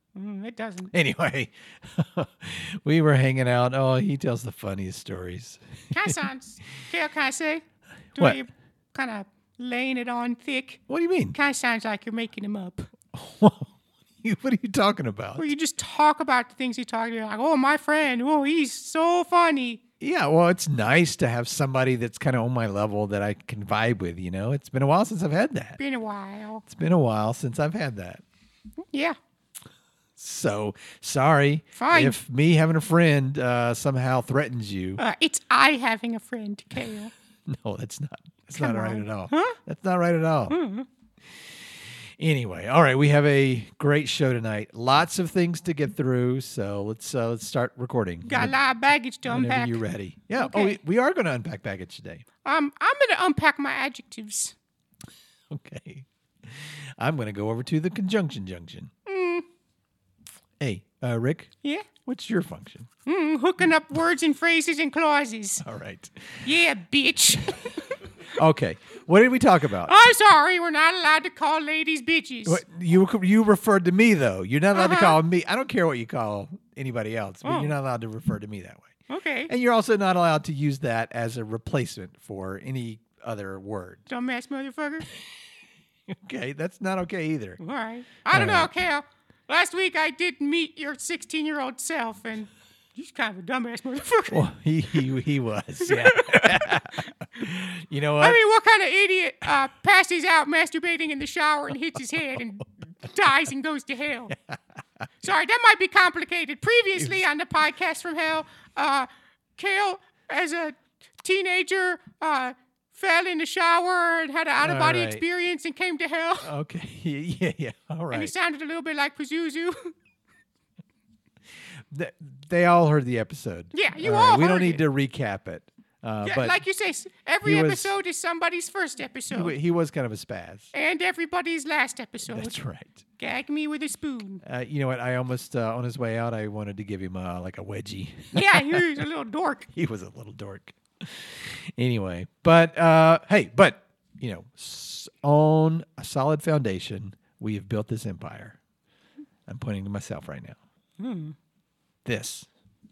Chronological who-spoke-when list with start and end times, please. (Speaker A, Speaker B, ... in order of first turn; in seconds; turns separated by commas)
Speaker A: 0.1-0.9, Speaker B: 0.9-6.2, Speaker A: 5.9-7.6, Speaker A: 8.2-10.8, Speaker B: 10.9-11.4, Speaker A: 11.3-12.9, Speaker B: 13.1-15.5, Speaker A: 15.4-19.8, Speaker B: 20.0-25.8, Speaker A: 25.8-26.6, Speaker B: 26.6-28.2, Speaker A: 28.9-29.2, Speaker B: 30.2-35.0, Speaker A: 31.8-32.2, Speaker A: 35.0-37.1, Speaker B: 37.5-40.6, Speaker A: 38.6-39.6, Speaker A: 40.5-40.9, Speaker B: 42.2-48.6, Speaker A: 48.3-49.8, Speaker B: 49.2-52.2, Speaker A: 50.4-50.8, Speaker A: 52.5-54.5, Speaker B: 55.5-58.9, Speaker A: 59.1-59.5, Speaker B: 60.6-61.5, Speaker B: 62.0-62.9, Speaker A: 63.1-65.6, Speaker B: 65.6-66.5, Speaker A: 66.5-67.9, Speaker B: 68.3-69.9, Speaker A: 69.9-72.6, Speaker B: 72.5-78.9, Speaker A: 74.8-75.2, Speaker A: 77.5-77.7, Speaker A: 79.1-79.5, Speaker B: 79.5-84.1, Speaker A: 84.1-85.1, Speaker B: 86.1-87.6, Speaker A: 87.6-94.4, Speaker B: 88.3-88.8, Speaker B: 94.3-98.4, Speaker A: 95.8-96.8, Speaker A: 98.2-104.3, Speaker A: 105.2-116.5, Speaker B: 107.0-107.3, Speaker B: 114.6-115.2, Speaker B: 116.4-118.3, Speaker A: 118.1-120.0, Speaker B: 121.9-126.6, Speaker A: 123.7-124.8, Speaker A: 126.2-129.5, Speaker B: 127.4-128.0, Speaker B: 129.3-130.7, Speaker A: 130.7-132.5, Speaker B: 132.3-133.0, Speaker A: 133.2-134.4, Speaker B: 134.4-139.0, Speaker A: 138.3-139.7, Speaker B: 139.7-148.6, Speaker B: 149.5-150.6, Speaker A: 151.0-151.4, Speaker B: 152.1-152.5